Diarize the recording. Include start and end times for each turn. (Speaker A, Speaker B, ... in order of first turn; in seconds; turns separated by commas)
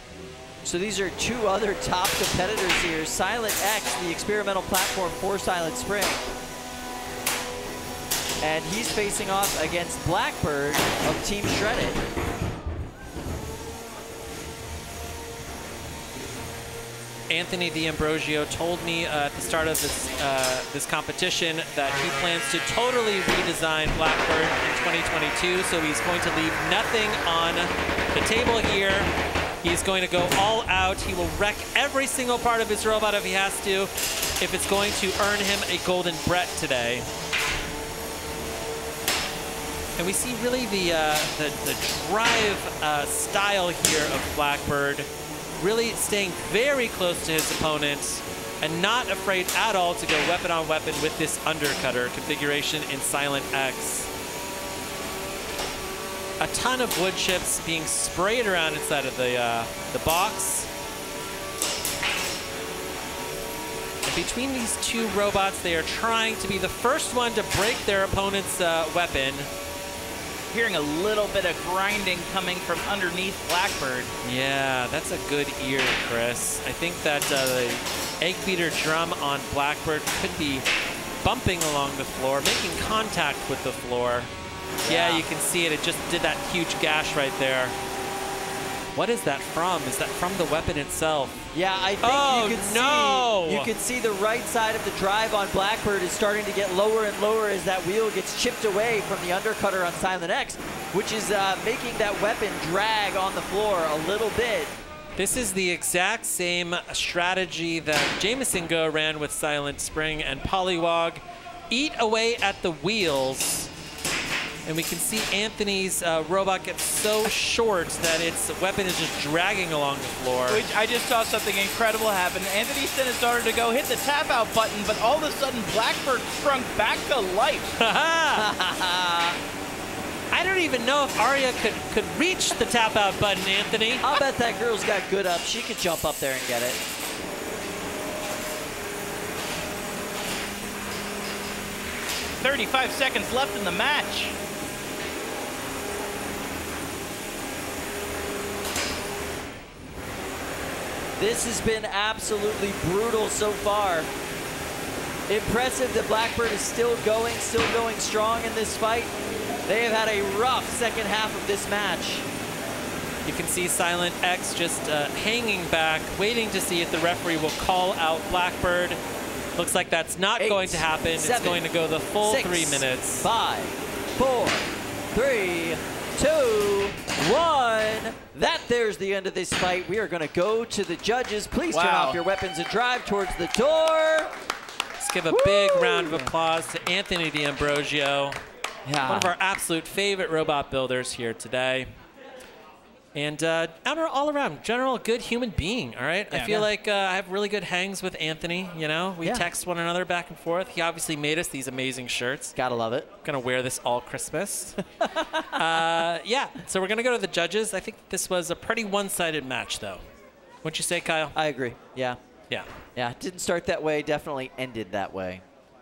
Speaker A: 0.6-6.3, Speaker A: 8.4-12.0, Speaker B: 17.3-29.1, Speaker B: 29.6-37.1, Speaker B: 40.0-54.1, Speaker B: 56.4-60.7, Speaker B: 64.0-69.5, Speaker C: 70.5-74.1, Speaker B: 74.2-80.7, Speaker B: 81.2-84.3, Speaker A: 84.8-85.2, Speaker B: 84.8-87.8, Speaker B: 88.9-91.4, Speaker A: 91.5-104.7, Speaker B: 92.0-93.7, Speaker B: 105.2-113.7, Speaker B: 114.7-120.6, Speaker C: 120.5-127.8, Speaker B: 127.8-128.4, Speaker A: 128.3-129.4, Speaker B: 130.3-134.0, Speaker A: 134.0-136.8, Speaker C: 142.4-144.3, Speaker A: 151.2-154.1, Speaker A: 155.3-159.1, Speaker A: 159.7-162.2, Speaker B: 163.2-169.0, Speaker B: 169.6-173.3, Speaker A: 170.4-171.7, Speaker A: 172.2-184.3, Speaker C: 181.7-182.2, Speaker B: 185.0-188.4, Speaker A: 185.3-186.3, Speaker A: 188.8-189.3, Speaker B: 189.1-191.9, Speaker B: 193.1-202.5, Speaker C: 196.3-196.7, Speaker A: 199.2-199.5, Speaker A: 202.6-203.1, Speaker B: 203.2-204.8, Speaker A: 205.0-205.6, Speaker B: 205.5-210.0, Speaker B: 210.6-211.3, Speaker A: 211.3-212.2, Speaker A: 212.9-215.4